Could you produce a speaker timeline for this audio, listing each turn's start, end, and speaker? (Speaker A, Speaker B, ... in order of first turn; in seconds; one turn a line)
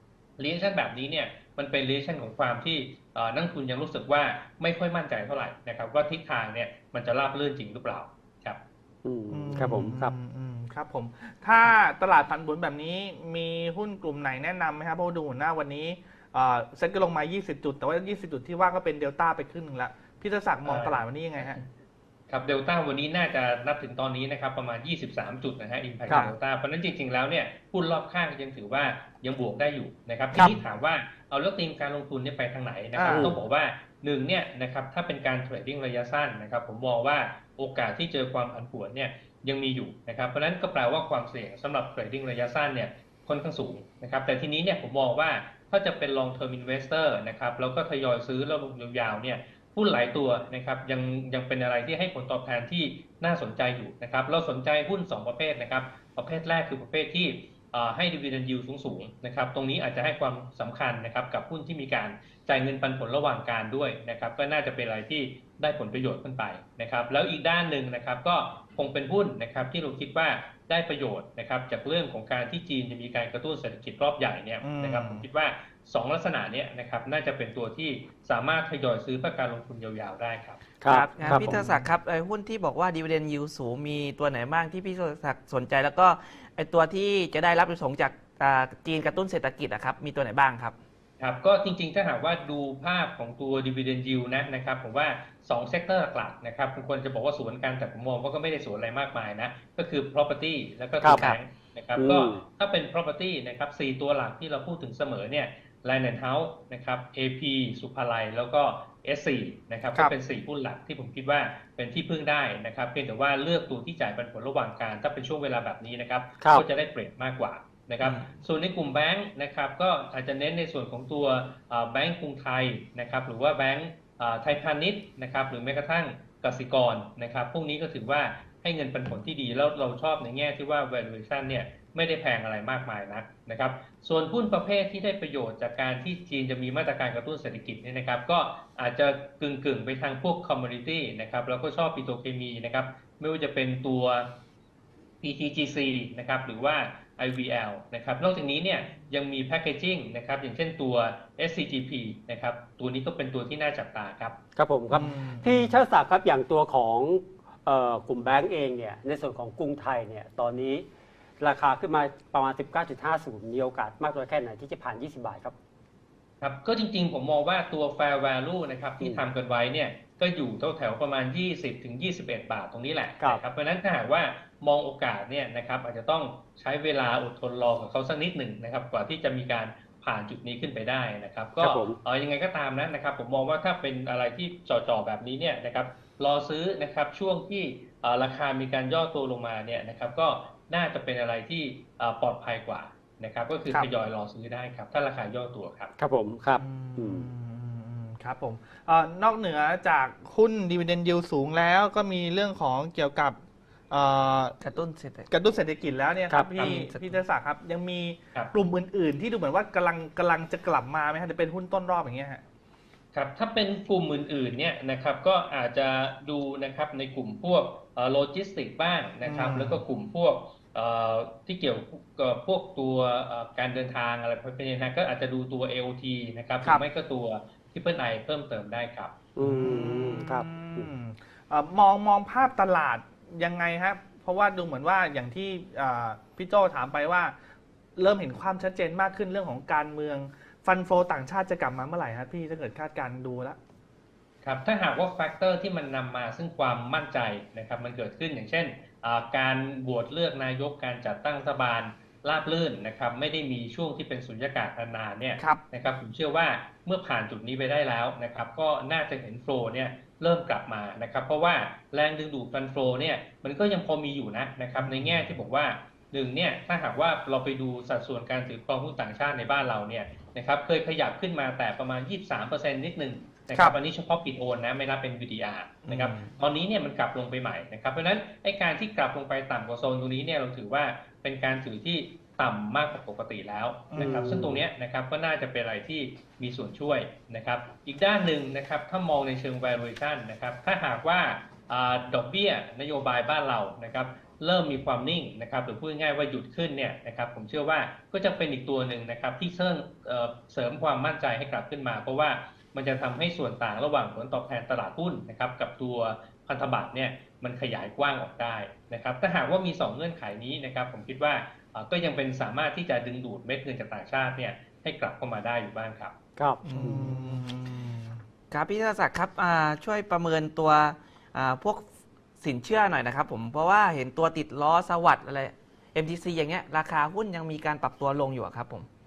Speaker A: 0.4-8.6
Speaker B: 9.0-10.1
Speaker C: 9.3-21.6
Speaker A: 20.6-21.6
Speaker A: 22.3-80.6
Speaker D: 26.1-26.3
Speaker C: 33.0-33.3
Speaker B: 33.0-33.4
Speaker C: 74.6-75.2
Speaker B: 80.8-81.6
Speaker D: 80.9-90.7
Speaker C: 81.2-81.9
Speaker A: 91.2-144.4
Speaker D: 101.0-101.4
Speaker B: 102.0-102.4
Speaker B: 116.4-116.7
Speaker D: 118.0-118.3
Speaker A: 145.2-154.4
Speaker B: 154.6-160.9
Speaker C: 154.9-155.8
Speaker B: 161.4-165.6
Speaker A: 166.4-195.9
Speaker B: 181.6-182.0
Speaker B: 196.0-197.3
Speaker C: 196.6-203.4
Speaker C: 203.9-204.6
Speaker D: 204.6-205.3
Speaker C: 205.3-212.4
Speaker D: 206.5-207.2
Speaker A: 213.1-229.1
Speaker C: 219.2-219.8
Speaker B: 229.4-230.9
Speaker C: 229.4-237.4
Speaker C: 237.9-243.6
Speaker A: 244.4-316.1
Speaker C: 264.8-265.4
Speaker C: 273.5-273.8
Speaker C: 275.9-276.3
Speaker C: 283.9-284.4
Speaker B: 283.9-284.6
Speaker B: 316.4-317.2
Speaker C: 316.6-318.2
Speaker D: 318.5-321.9
Speaker D: 322.4-328.9